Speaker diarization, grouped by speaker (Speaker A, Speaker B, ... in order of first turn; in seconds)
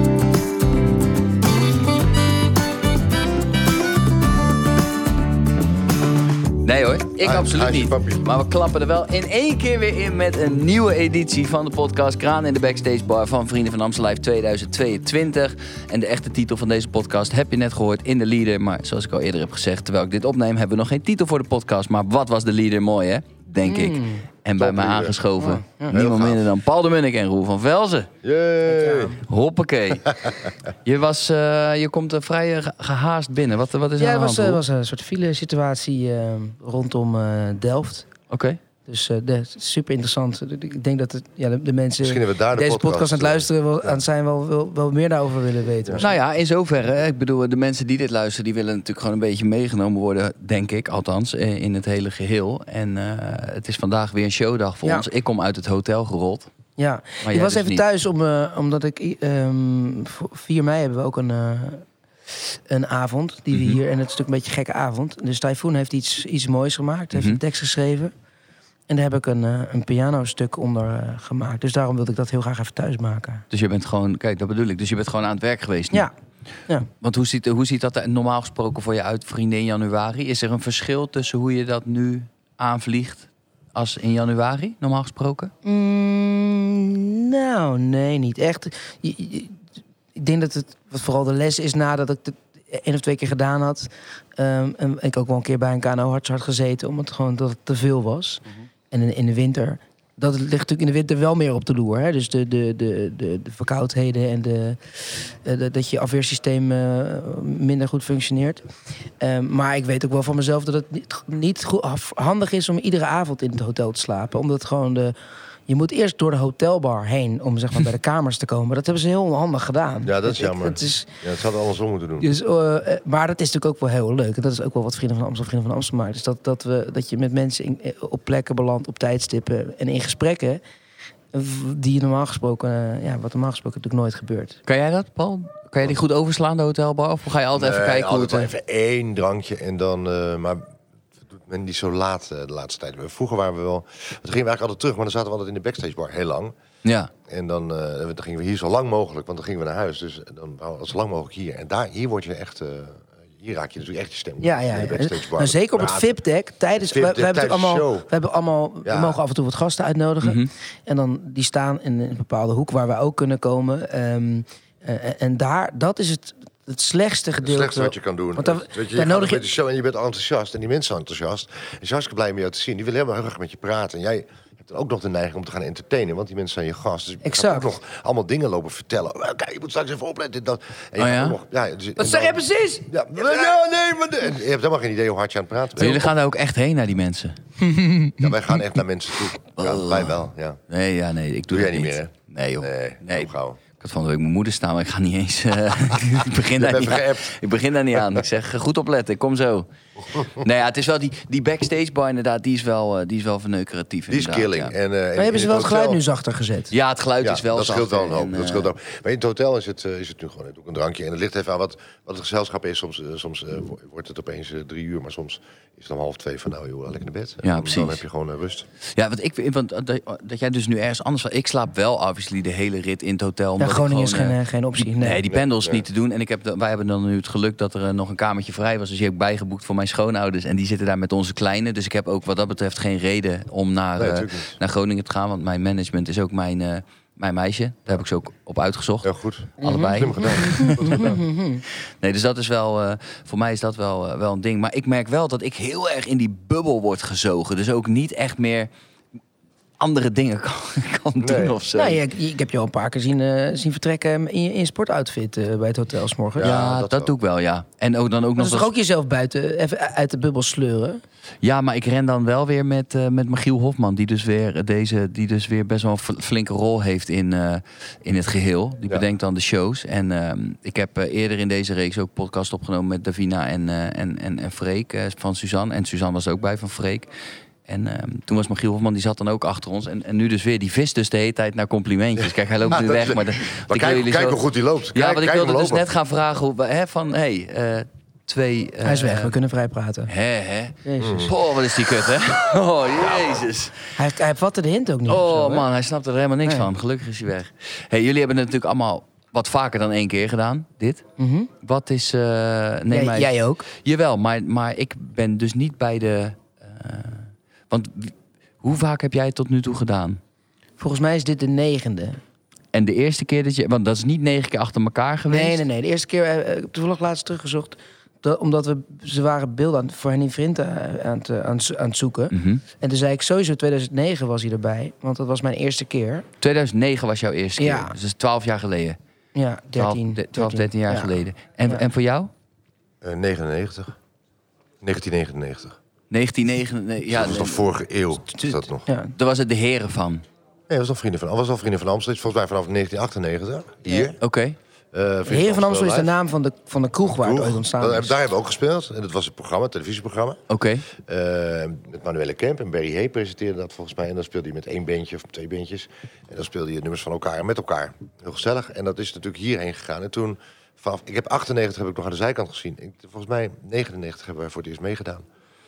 Speaker A: 6.6-28.1, 29.2-30.1, 30.8-34.6, 38.3-38.6, 46.0-56.5, 57.2-57.8, 63.5-63.8, 67.1-67.4, 73.5-76.1, 77.0-85.5, 134.7-138.5, 146.8-147.1, 160.2-160.5, 181.0-181.3, 185.8-187.4, 189.6-204.7, 206.7-208.7, 217.4-218.0, 218.9-241.2, 241.7-248.7, 249.8-252.0, 256.4-258.7, 261.4-277.1, 277.6-284.4, 284.9-289.3, 290.1-293.8, 295.1-301.0, 301.6-310.2, 312.7-315.6, 322.3-322.6, 326.4-329.0, 329.8-332.3, 336.1-337.7, 339.1-340.2, 344.2-344.6, 350.5-350.8
Speaker B: 7.2-8.2, 24.6-25.2, 25.9-26.5, 28.2-29.2, 30.1-30.5, 42.0-44.0, 120.0-122.3, 137.6-140.6, 141.3-146.5, 147.3-156.1, 156.8-158.1, 158.8-159.2, 167.4-186.1, 188.2-190.6, 191.5-193.6, 196.6-197.3, 204.1-206.0, 207.2-218.7, 225.3-225.8, 234.0-234.6, 239.0-241.2, 251.2-251.6, 256.3-257.1, 282.2-285.8, 291.0-291.3, 333.0-333.9, 334.8-335.8, 337.1-338.9, 340.7-344.2, 344.9-346.1, 347.1-350.4, 351.0-365.2
Speaker C: 23.6-24.2, 25.4-25.9, 28.7-29.2, 34.0-38.1, 38.9-46.1, 56.8-61.8, 62.4-68.1, 68.9-73.4, 85.6-89.6, 90.1-108.6, 109.2-115.1, 115.7-121.1, 122.2-130.6, 131.3-134.6, 154.4-169.4, 177.2-177.7, 182.0-182.8, 187.6-188.3, 205.2-206.7, 223.6-225.2, 239.6-241.6, 251.8-256.5, 258.4-261.0, 288.8-290.1, 290.8-291.3, 294.0-295.6, 301.2-301.5, 302.9-303.6, 310.8-312.2, 315.3-326.3, 327.6-327.9, 329.3-331.8, 338.3-339.1, 343.9-344.1, 345.3-348.1